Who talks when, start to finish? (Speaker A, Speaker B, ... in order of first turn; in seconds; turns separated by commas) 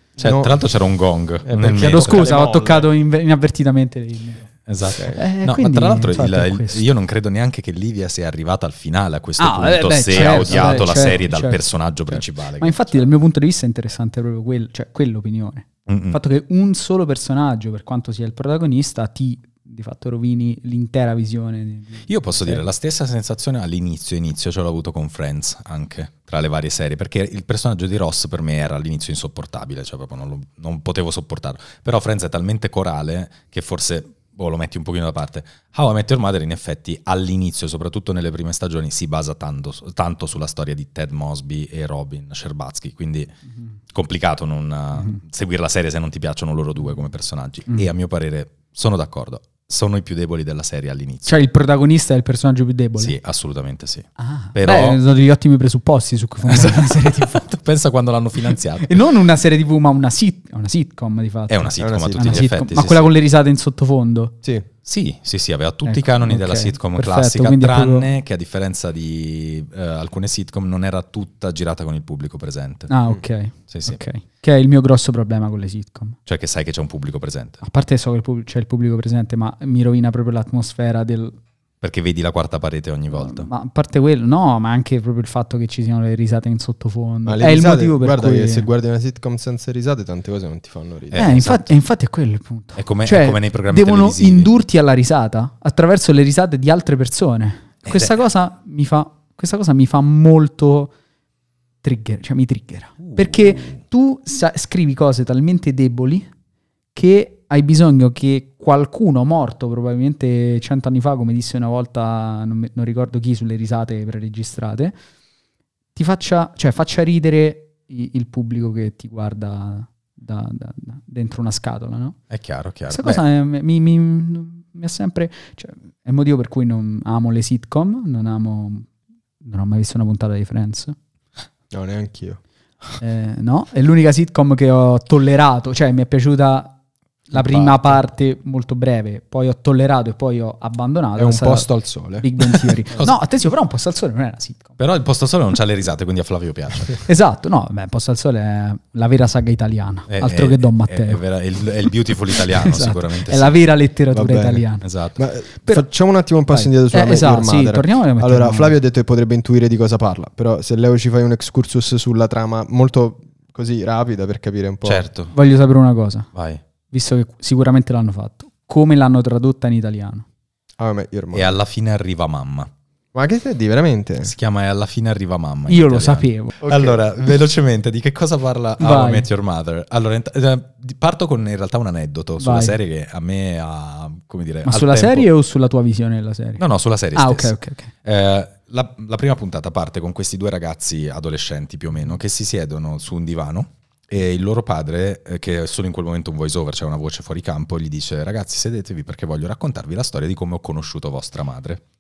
Speaker A: 0.2-0.6, Speaker B: 0.2-2.4, Speaker A: 1.4-2.9, Speaker C: 1.8-4.6, Speaker B: 4.7-13.1, Speaker C: 5.1-6.8, Speaker C: 9.4-22.6, Speaker A: 10.2-10.9, Speaker B: 15.9-16.2, Speaker B: 22.1-43.3, Speaker B: 43.9-51.4, Speaker C: 51.3-53.2, Speaker B: 53.0-55.0, Speaker C: 54.2-57.5, Speaker B: 56.4-59.0, Speaker C: 58.8-64.3, Speaker B: 61.5-63.1, Speaker A: 61.8-62.6, Speaker B: 64.8-72.9, Speaker C: 65.8-68.1, Speaker C: 72.9-76.2, Speaker B: 73.7-74.0, Speaker B: 76.3-77.6, Speaker C: 77.6-81.4, Speaker B: 81.8-83.5, Speaker C: 83.1-88.7, Speaker A: 87.2-91.3, Speaker B: 91.1-91.8, Speaker C: 91.1-100.9, Speaker B: 92.8-94.5, Speaker B: 97.8-98.2, Speaker C: 101.8-106.3, Speaker B: 103.0-103.8, Speaker C: 106.9-115.0, Speaker C: 116.0-122.2, Speaker B: 122.3-123.2, Speaker C: 122.9-128.9, Speaker C: 129.4-131.0, Speaker A: 131.7-132.4, Speaker C: 133.0-136.8, Speaker B: 137.3-138.0, Speaker C: 137.3-144.8, Speaker A: 141.2-143.1, Speaker B: 144.8-147.0, Speaker C: 147.1-154.9, Speaker B: 150.1-153.7, Speaker A: 154.1-165.0, Speaker B: 154.8-155.2, Speaker C: 155.6-155.9, Speaker C: 156.5-158.8, Speaker B: 164.8-165.3, Speaker C: 165.3-166.3, Speaker B: 166.3-166.6, Speaker C: 166.9-170.2, Speaker A: 170.8-171.6, Speaker B: 171.3-172.7, Speaker A: 173.1-174.3, Speaker B: 174.2-185.3, Speaker C: 175.7-176.6, Speaker A: 176.6-177.0, Speaker C: 178.8-179.3, Speaker C: 182.4-182.8, Speaker C: 184.7-187.9, Speaker B: 186.6-201.8